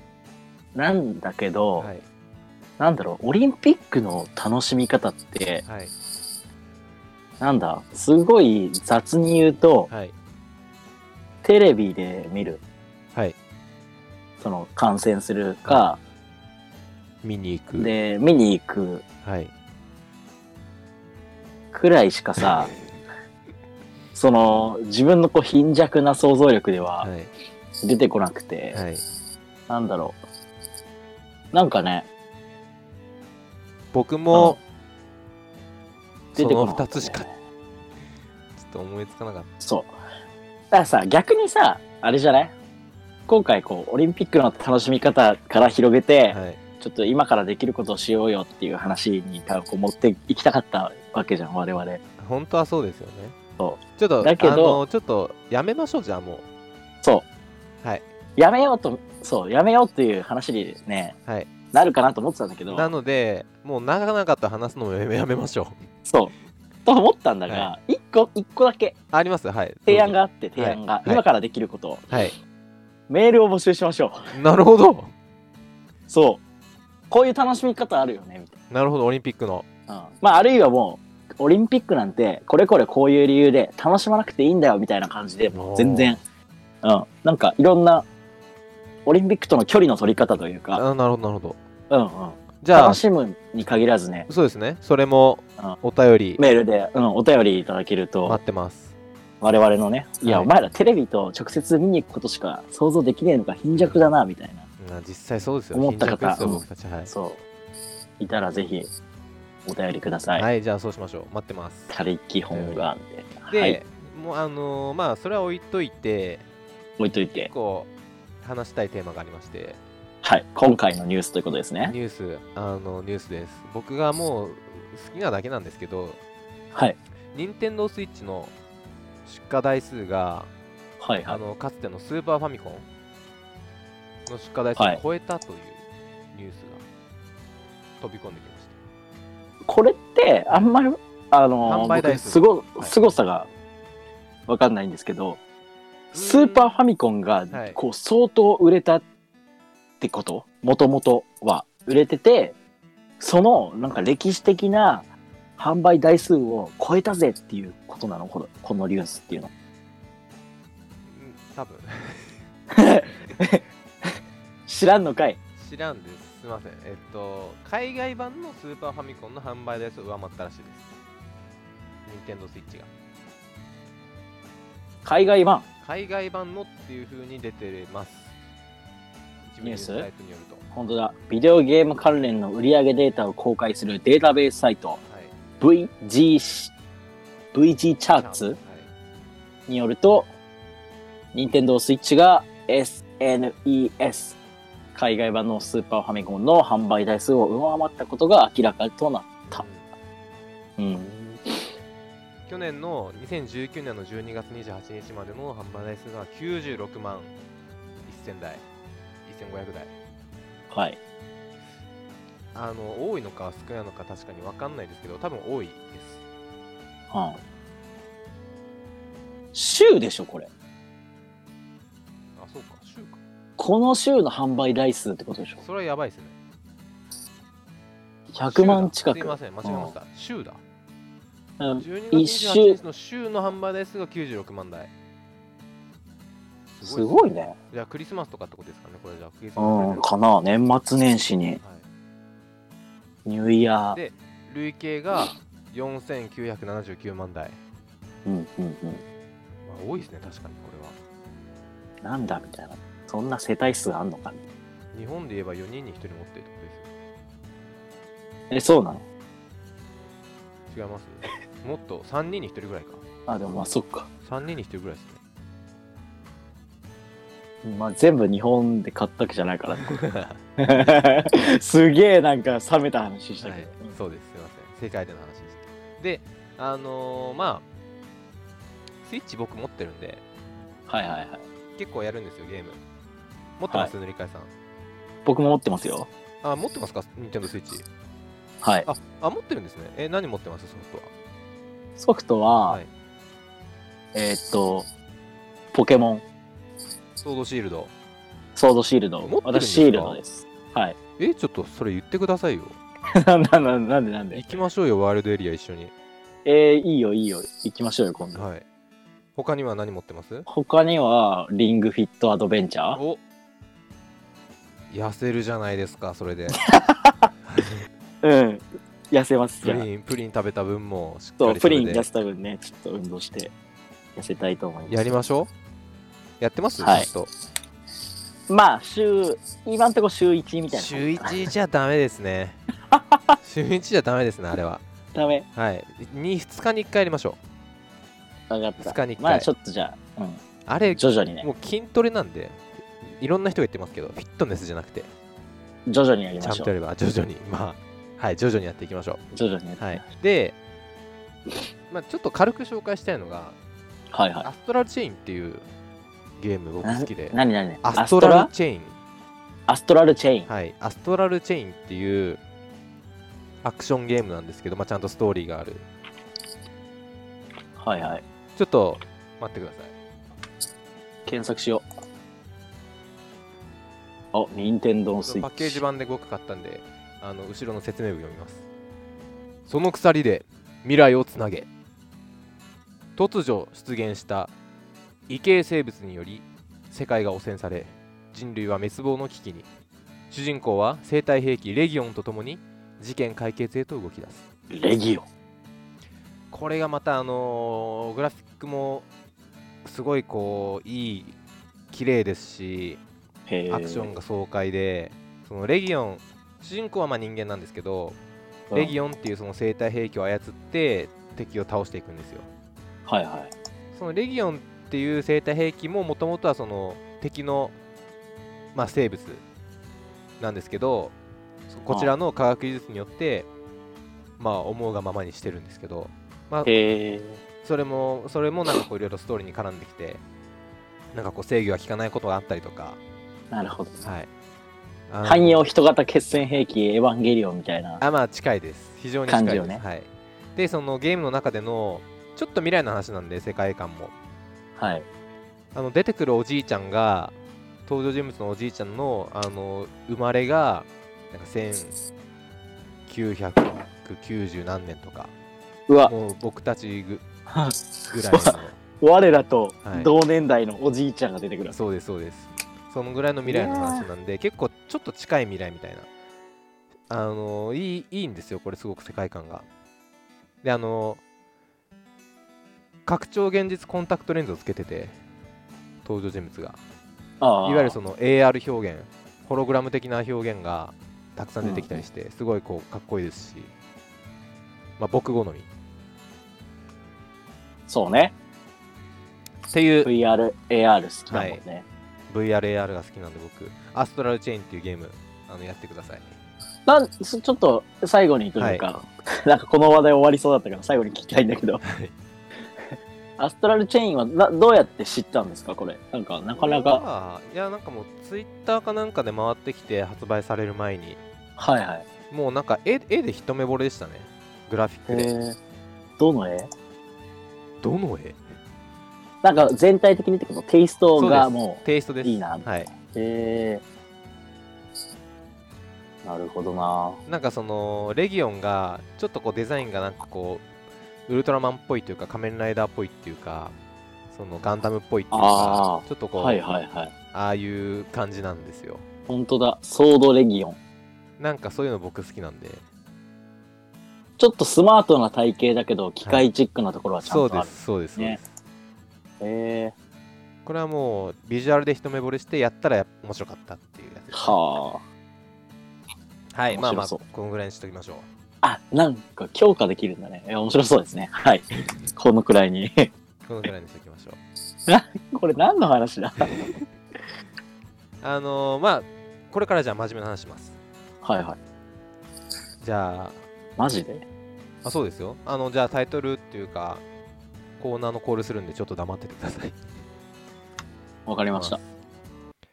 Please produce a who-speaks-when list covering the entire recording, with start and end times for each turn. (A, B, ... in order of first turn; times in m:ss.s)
0:00.8-0:01.9 A
0:01.8-0:02.1 B
0:02.8-0:05.7 A
0:05.7-0:05.9 B
0:07.4-0:09.9 A
0:09.9-0:10.2 B
0:11.4-0:12.6 A
0:14.4-0:16.0 A
0:17.2-0:17.9 B
0:17.8-0:19.0 A
0:19.2-0:19.5 B
0:21.7-0:22.7 A
0:22.4-0:22.7 B
0:24.2-0:27.1 A
0:27.0-0:27.3 B
0:27.8-0:28.8 A
0:28.7-0:29.0 B
0:29.7-0:30.2 A
0:31.5-0:32.1 A
0:33.9-0:34.6 B
0:34.3-0:34.6 A
0:36.4-0:37.3 B
0:36.4-0:37.3 A
0:38.6-0:39.5 B
0:39.6-0:39.9 A
0:40.7-0:42.5 A
0:43.3-0:52.0 A
0:46.3-0:46.6 B
0:52.2-0:53.4 B
0:53.6-0:54.8 A
0:54.0-0:56.4 B
0:58.4-1:01.2 A
1:01.3-1:01.5 B
1:01.7-1:02.9 A
1:02.7-1:05.9 B
1:06.1-1:06.3 A
1:06.9-1:09.0 A
1:07.5-1:07.7 B
1:09.1-1:11.2 B
1:09.9-1:12.2 A
1:12.1-1:12.4 B
1:13.1-1:14.2 A
1:14.3-1:15.1 B
1:16.1-1:16.4 A
1:17.1-1:18.6 A
1:18.7-1:19.7 B
1:19.9-1:26.2 A
1:25.5-1:26.2 B
1:26.8-1:28.1 A
1:29.1-1:30.8 A
1:30.8-1:31.6 B
1:31.9-1:34.3 A
1:32.6-1:33.0 B
1:34.3-1:36.4 B
1:36.4-1:38.4 A
1:38.2-1:39.0 B
1:39.4-1:44.7 A
1:40.2-1:40.5 B
1:43.8-1:44.0 B
1:44.8-1:47.1 B
1:45.7-1:47.4 A
1:48.2-1:48.9 A
1:49.7-1:50.5 A
1:50.4-1:51.9 B
1:51.9-1:53.8 A
1:52.5-1:53.0 B
1:53.5-1:56.4 B
1:57.0-1:57.5 A
1:57.5-1:57.9 B
1:58.4-1:59.8 B
2:00.2-2:02.0 A
2:01.8-2:06.2 B
2:06.7-2:07.0 A
2:07.3-2:08.5 B
2:09.2-2:10.5 B
2:11.0-2:11.4 A
2:11.3-2:12.9 B
2:14.2-2:16.8 B
2:18.0-2:18.8 B
2:19.6-2:23.5 A
2:21.6-2:23.0 B
2:24.5-2:25.4 A
2:26.1-2:29.0 A
2:26.1-2:26.8 B
2:27.5-2:27.8 B
2:30.0-2:32.6 A
2:33.2-2:39.5 A
2:41.0-2:42.4 B
2:42.7-2:44.2 A
2:44.7-2:45.4 A
2:45.6-2:50.9 B
2:52.1-2:52.9 B
2:55.0-2:55.7 A
2:55.8-2:58.4 B
2:59.5-3:00.6 B
2:59.6-3:00.1 A
3:00.7-3:05.0 A
3:05.1-3:05.4 B
3:05.6-3:06.7 A
3:07.5-3:08.6 A
3:08.1-3:08.9 B
3:09.7-3:10.3 A
3:11.3-3:14.4 A
3:15.0-3:19.7 A
3:19.5-3:19.9 B
3:20.8-3:21.6 A
3:22.5-3:27.3 B
3:28.0-3:28.6 B
3:29.2-3:30.0 B
3:30.7-3:31.0 A
3:32.5-3:36.2 B
3:37.1-3:37.4 A
3:39.5-3:40.5 A
3:42.4-3:43.2 B
3:43.6-3:45.6 A
3:45.6-3:46.4 B
3:48.3-3:49.9 A
3:48.5-3:50.6 B
3:51.6-3:52.8 A
3:51.8-3:54.9 B
3:56.7-4:00.0 B
3:56.8-3:57.6 A
3:59.6-4:01.6 A
4:01.6-4:01.9 B
4:03.3-4:04.0 A
4:03.9-4:07.6 B
4:08.2-4:09.0 A
4:09.6-4:11.0 B
4:12.0-4:14.4 A
4:14.9-4:16.9 B
4:18.5-4:19.0 A
4:20.7-4:23.0 B
4:23.3-4:24.1 A
4:24.2-4:25.2 B
4:27.6-4:30.0 A
4:29.7-4:30.4 B
4:30.6-4:33.9 A
4:33.4-4:37.7 B
4:39.0-4:40.2 B
4:40.9-4:41.5 A
4:41.8-4:42.8 B
4:43.6-4:44.5 B
4:45.2-4:46.1 A
4:46.4-4:47.9 B
4:48.6-4:48.9 A
4:48.9-4:51.1 B
4:52.0-4:52.8 A
4:54.1-4:54.9 A
4:55.7-4:56.2 A
4:57.2-4:57.9 B
4:58.6-5:01.0 A
4:59.2-5:00.2 B
5:01.2-5:02.8 B
5:03.2-5:04.6 A
5:04.3-5:05.9 B
5:06.4-5:08.5 A
5:08.4-5:08.6 B
5:09.4-5:10.5 B
5:10.5-5:13.0 A
5:12.9-5:13.2 B
5:14.9-5:16.6 B
5:16.5-5:17.3 A
5:17.4-5:17.8 B
5:18.2-5:19.9 A
5:19.6-5:22.1 B
5:21.4-5:23.5 A
5:24.2-5:25.2 A
5:24.9-5:25.5 B
5:26.4-5:27.3 B
5:26.8-5:27.1 A
5:28.5-5:31.5 A
5:30.7-5:32.6 B
5:32.9-5:33.4 A
5:33.4-5:34.8 B
5:35.1-5:35.5 A
5:35.6-5:37.4 B
5:38.5-5:41.5 A
5:38.8-5:39.5 B
5:40.7-5:45.1 B
5:45.9-5:46.7 A
5:46.4-5:49.2 B
5:49.3-5:50.1 A
5:49.8-5:50.6 B
5:51.9-5:53.6 B
5:54.1-5:54.5 A
5:54.4-5:55.7 B
5:56.4-5:59.0 B
5:56.8-5:58.5 A
5:59.7-6:00.5 A
6:00.5-6:02.4 B
6:03.6-6:05.9 B
6:07.8-6:08.2 A
6:08.6-6:10.0 B
6:11.3-6:11.8 A
6:14.3-6:15.8 A
6:15.3-6:18.6 B
6:19.7-6:21.7 B
6:23.2-6:24.5 B
6:25.3-6:29.7 B
6:30.3-6:34.4 B
6:34.7-6:35.3 A
6:36.5-6:39.1 B
6:39.8-6:41.4 B
6:41.9-6:43.0 B
6:43.5-6:44.1 A
6:43.7-6:48.2 B
6:48.7-6:49.0 A
6:48.7-6:52.5 B
6:53.1-6:53.5 A
6:53.9-6:57.8 B
6:58.7-6:59.4 B
7:00.4-7:01.2 B
7:01.7-7:03.5 B
7:01.9-7:02.1 A
7:04.4-7:06.7 B
7:06.7-7:07.4 A
7:07.6-7:10.2 B
7:11.1-7:13.0 B
7:13.5-7:14.1 A
7:14.0-7:14.3 B
7:15.1-7:15.6 B
7:15.2-7:18.0 A
7:18.0-7:24.1 B
7:19.3-7:19.8 A
7:24.8-7:25.1 A
7:25.7-7:27.4 B
7:27.9-7:32.0 B
7:33.1-7:35.3 B
7:35.9-7:36.1 A
7:36.0-7:37.2 B
7:37.5-7:41.8 A
7:38.1-7:38.8 B
7:39.8-7:40.1 B
7:41.7-7:46.1 B
7:43.4-7:44.1 A
7:47.1-7:49.7 B
7:50.6-7:51.2 B
7:53.1-7:55.2 B
7:56.0-7:56.8 B
7:57.4-7:58.0 A
7:57.6-8:03.7 B
8:01.6-8:02.1 A
8:05.0-8:05.7 B
8:07.9-8:08.4 A
8:09.7-8:10.1 B
8:10.0-8:11.8 A
8:11.3-8:11.6 B
8:12.3-8:16.3 B
8:16.9-8:21.8 A
8:18.6-8:18.9 B
8:21.8-8:22.1 B
8:23.4-8:27.0 A
8:26.6-8:31.2 B
8:31.6-8:32.1 A
8:32.3-8:35.3 B
8:35.1-8:35.6 A
8:36.2-8:36.7 A
8:37.8-8:38.4 B
8:39.4-8:43.8 A
8:41.2-8:42.9 B
8:46.2-8:47.2 A
8:47.3-8:50.7 B
8:51.3-8:53.8 B
8:54.3-8:56.6 B
8:55.3-8:57.1 A
8:57.3-8:59.0 B
8:59.3-9:00.8 A
9:01.4-9:02.8 B
9:04.4-9:08.4 A
9:07.2-9:08.4 B
9:09.4-9:10.0 A
9:10.6-9:14.6 B
9:14.3-9:15.0 A
9:16.5-9:18.3 B
9:16.7-9:17.2 A
9:18.6-9:23.1 A
9:23.5-9:24.4 B
9:24.9-9:26.6 A
9:28.2-9:30.8 B
9:31.2-9:31.6 A
9:32.8-9:33.4 B
9:33.8-9:34.2 A
9:34.8-9:37.0 B
9:37.8-9:39.8 B
9:41.3-9:41.8 A
9:41.5-9:41.8 B